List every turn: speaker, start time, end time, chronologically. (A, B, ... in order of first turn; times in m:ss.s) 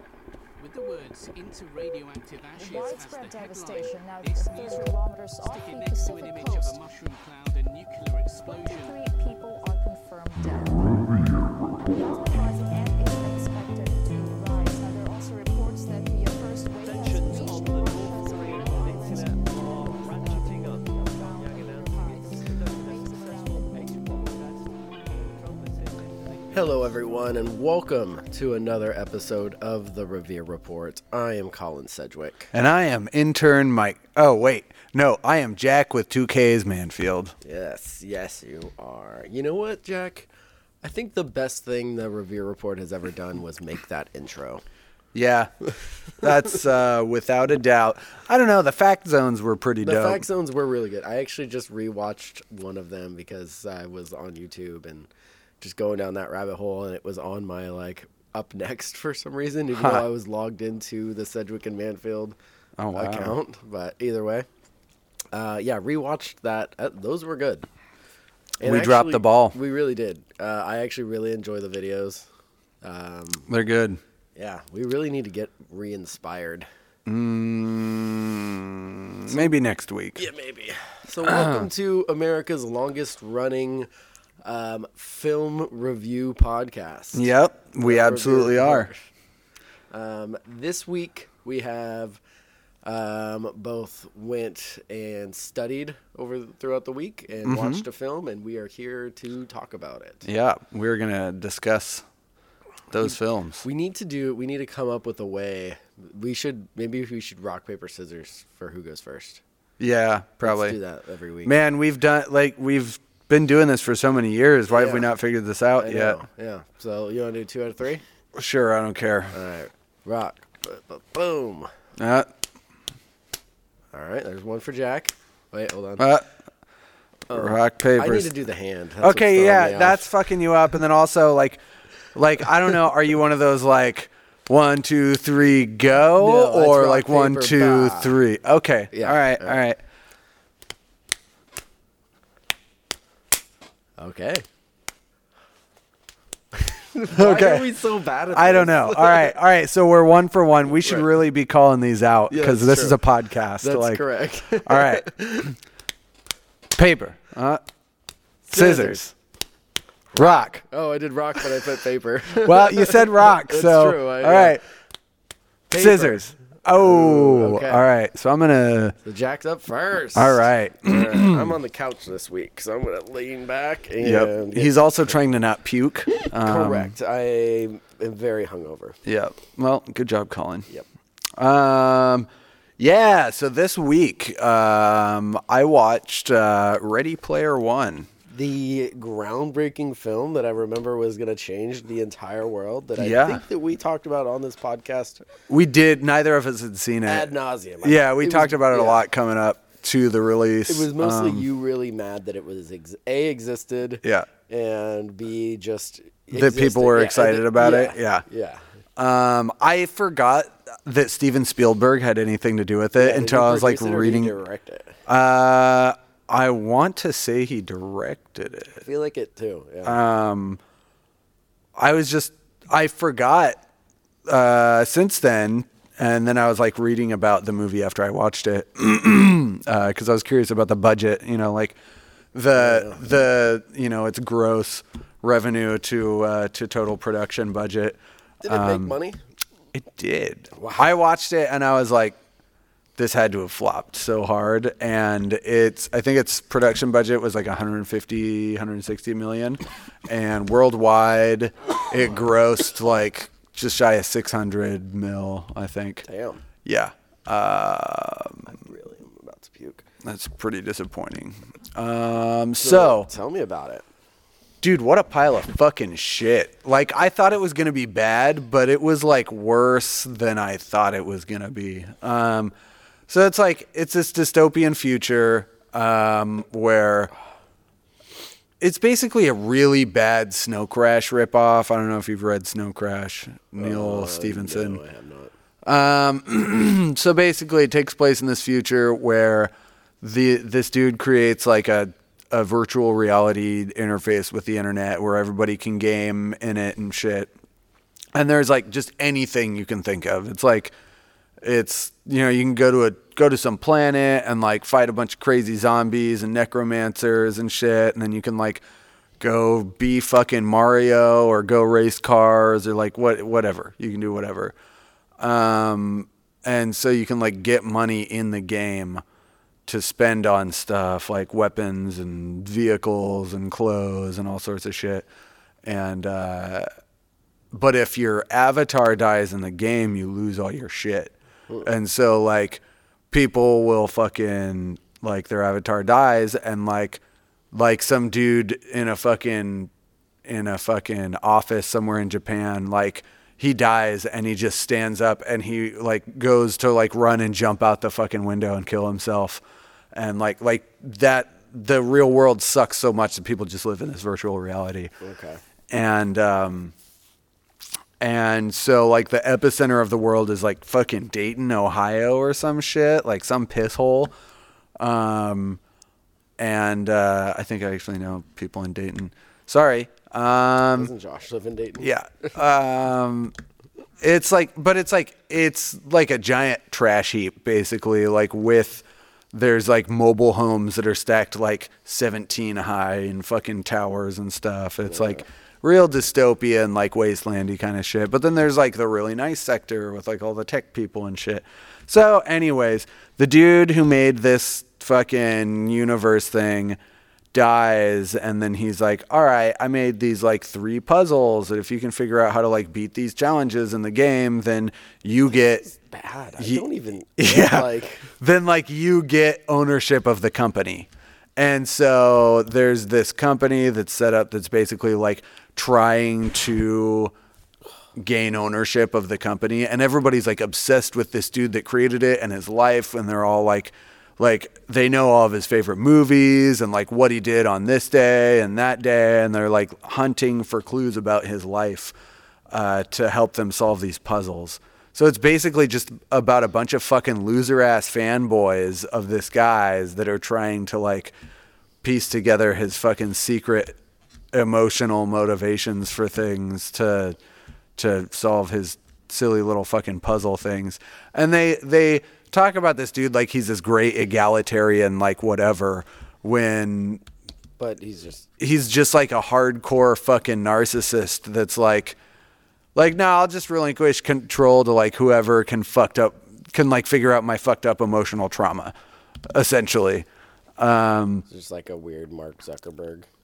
0:00.6-0:09.0 A
0:02.6-0:06.8 B
0:08.5-0:23.9 B
0:16.8-0:27.6 C
0:26.5-0:32.5 D
0:32.5-0:37.3 E
0:37.4-0:40.3 D
0:40.8-0:44.6 D
0:45.1-0:45.5 E
0:46.2-0:50.2 E
0:49.8-0:55.1 D
0:55.6-1:02.4 D
0:59.7-1:00.0 E
1:02.8-1:03.3 E
1:02.9-1:04.4 D
1:05.3-1:07.7 D
1:08.6-1:12.2 D
1:08.6-1:09.6 E
1:12.8-1:13.5 D
1:13.5-1:14.0 E
1:14.4-1:16.7 D
1:17.0-1:20.2 E
1:20.2-1:23.9 D
1:21.2-1:21.7 E
1:24.4-1:27.3 D
1:27.1-1:28.9 E
1:27.8-1:29.0 D
1:29.9-1:32.2 D
1:32.8-1:40.2 D
1:37.4-1:37.8 E
1:40.2-1:42.0 E
1:42.9-1:43.6 E
1:43.6-1:49.4 D
1:49.8-1:50.8 E
1:50.4-1:51.5 D
1:51.4-1:56.2 E
1:54.7-1:55.0 D
1:55.8-1:58.0 D
1:58.3-1:59.3 E
1:59.3-2:01.7 D
2:02.0-2:02.3 E
2:03.9-2:06.0 D
2:06.0-2:06.2 E
2:07.3-2:10.0 D
2:07.3-2:08.3 E
2:09.0-2:11.6 E
2:12.1-2:19.8 E
2:16.2-2:18.2 D
2:18.9-2:19.6 D
2:24.0-2:24.4 D
2:26.6-2:29.3 D
2:27.1-2:27.7 E
2:28.3-2:35.1 E
2:32.3-2:33.0 D
2:33.6-2:35.5 D
2:36.7-2:37.6 E
2:38.4-2:39.0 D
2:38.5-2:39.1 E
2:40.1-2:40.6 E
2:40.1-2:44.6 D
2:42.4-2:44.6 E
2:45.7-2:47.8 D
2:45.7-2:48.9 E
2:49.0-2:55.1 D
2:50.1-2:51.5 E
2:54.0-2:56.9 E
2:56.3-2:59.0 D
2:59.0-3:00.7 E
3:01.4-3:02.3 E
3:02.8-3:08.1 E
3:08.3-3:15.2 D
3:13.0-3:13.4 E
3:15.5-3:17.3 E
3:17.0-3:19.0 D
3:17.8-3:21.4 E
3:20.7-3:28.6 D
3:24.0-3:24.3 E
3:26.3-3:28.2 E
3:29.0-3:34.3 E
3:33.0-3:35.0 D
3:35.1-3:38.8 E
3:38.8-3:40.0 D
3:39.8-3:40.6 E
3:41.8-3:43.6 E
3:44.3-3:51.8 E
3:52.3-3:58.9 E
3:52.6-3:53.0 D
3:58.4-3:59.2 D
3:59.7-4:02.2 E
4:00.6-4:00.9 D
4:03.0-4:16.0 E
4:16.0-4:16.4 D
4:16.6-4:18.4 E
4:18.4-4:19.8 D
4:20.0-4:23.1 E
4:22.6-4:23.8 D
4:24.6-4:32.5 E
4:33.1-4:37.1 E
4:38.6-4:44.8 E
4:43.6-4:45.3 D
4:45.6-4:57.3 E
4:58.1-5:00.7 E
5:01.4-5:08.6 E
5:09.2-5:14.5 E
5:15.2-5:19.0 E
5:19.6-5:25.0 E
5:25.6-5:26.7 E
5:27.5-5:31.1 E
5:31.6-5:37.0 E
5:37.5-5:39.7 E
5:40.2-5:49.4 E
5:49.9-5:54.9 E
5:55.0-5:55.4 D
5:55.7-5:56.7 E
5:58.0-6:04.1 E
6:04.8-6:05.6 E
6:06.4-6:10.9 E
6:10.7-6:12.3 D
6:11.8-6:13.3 E
6:14.0-6:36.8 E
6:24.9-6:25.2 D
6:37.3-6:45.6 E
6:45.6-6:48.1 D
6:46.4-6:46.6 E
6:47.2-6:57.1 E
6:58.0-7:11.9 E
7:12.5-7:21.1 E
7:21.8-7:23.8 E
7:24.3-7:27.2 E
7:27.8-7:37.0 E
7:37.6-7:38.3 D
7:38.4-7:42.0 E
7:42.7-7:48.7 E
7:49.3-7:50.1 E
7:50.6-7:51.2 E
7:51.3-7:53.1 D